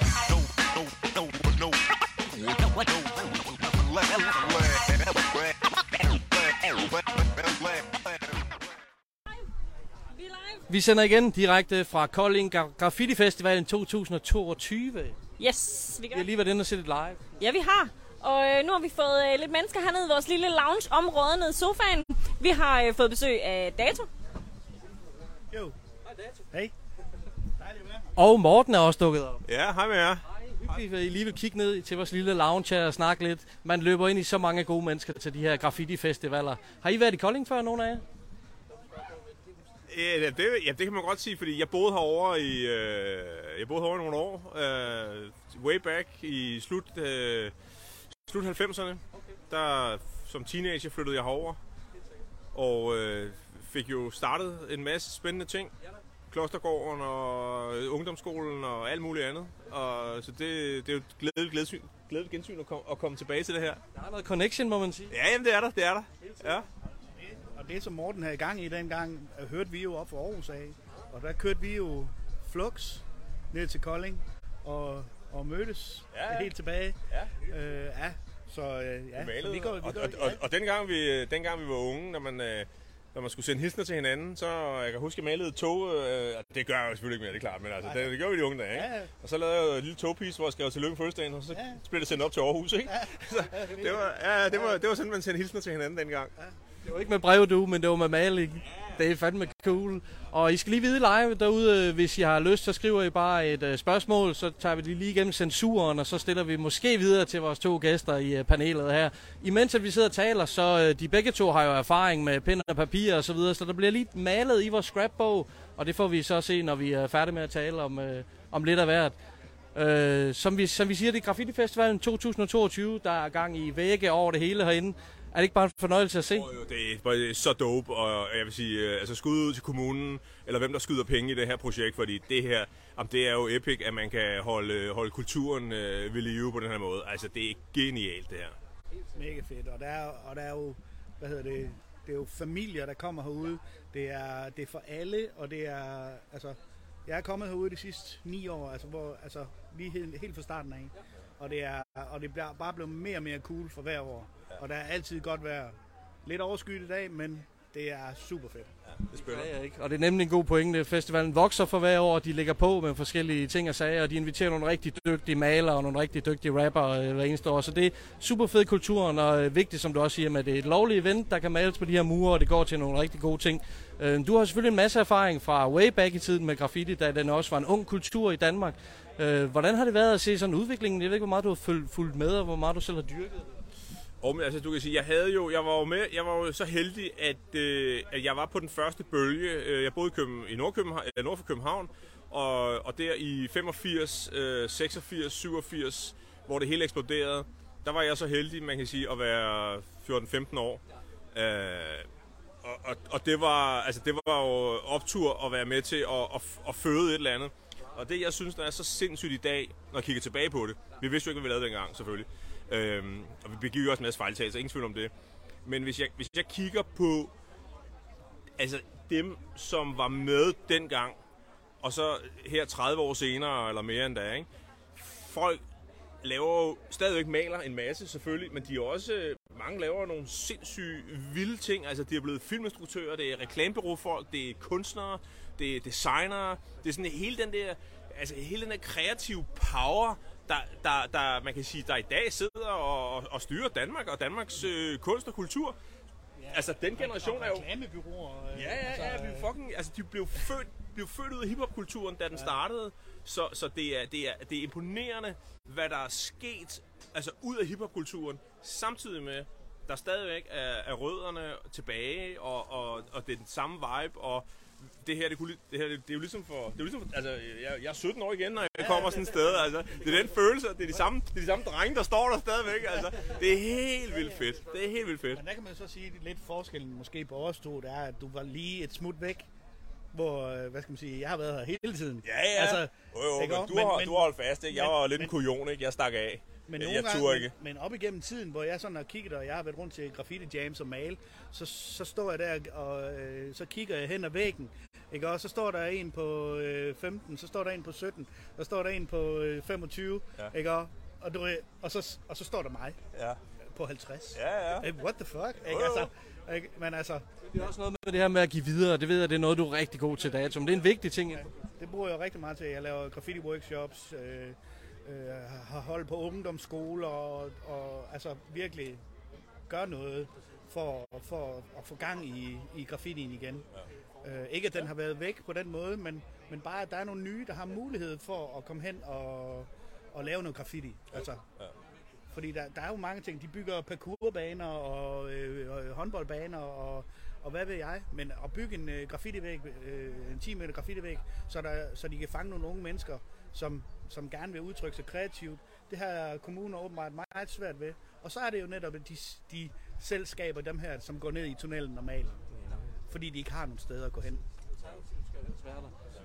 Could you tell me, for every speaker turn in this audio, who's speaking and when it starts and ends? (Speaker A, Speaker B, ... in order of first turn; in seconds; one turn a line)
Speaker A: 0.3-1.8
Speaker A: 2.8-5.5
Speaker A: 6.8-8.2
Speaker B: 10.1-10.7
Speaker C: 10.7-15.2
Speaker B: 15.4-16.2
Speaker C: 16.1-17.2
Speaker B: 17.4-24.1
Speaker D: 27.6-28.1
Speaker C: 28.2-29.4
Speaker E: 29.5-30.2
Speaker C: 30.5-38.0
Speaker E: 39.9-47.5
Speaker E: 48.1-51.6
Speaker E: 52.5-55.7
Speaker E: 56.3-63.8
Speaker C: 63.9-65.1
Speaker E: 65.1-66.7
Speaker D: 67.0-80.4
Speaker E: 76.1-76.5
Speaker E: 77.1-77.4
Speaker E: 79.2-96.3
Speaker D: 87.8-89.1
Speaker D: 91.5-91.8
Speaker D: 92.8-94.8
Speaker C: 96.8-119.2
Speaker C: 119.7-126.5
Speaker E: 126.3-138.6
Speaker D: 139.2-158.7
Speaker E: 159.0-159.5
Speaker C: 159.1-183.5
Speaker E: 184.2-200.8
Speaker E: 201.3-202.1
Speaker E: 202.6-215.1
Speaker E: 215.7-217.3
Speaker E: 218.6-221.2
Speaker E: 221.8-225.6
Speaker E: 226.2-245.8
Speaker D: 246.4-249.5
Speaker E: 246.5-247.7
Speaker E: 248.5-275.4
Speaker D: 268.8-269.7
Speaker D: 275.3-279.5
Speaker D: 280.1-285.3
Speaker E: 282.2-287.5
Speaker D: 286.7-303.0
Speaker E: 303.1-303.4
Speaker D: 303.7-307.2
Speaker E: 304.3-304.9
Speaker E: 305.6-306.1
Speaker C: 307.5-311.5
Speaker D: 311.8-319.0
Speaker D: 319.7-323.7
Speaker D: 324.2-331.4
Speaker D: 332.3-352.5
Speaker D: 353.1-354.4
Speaker C: 355.5-355.9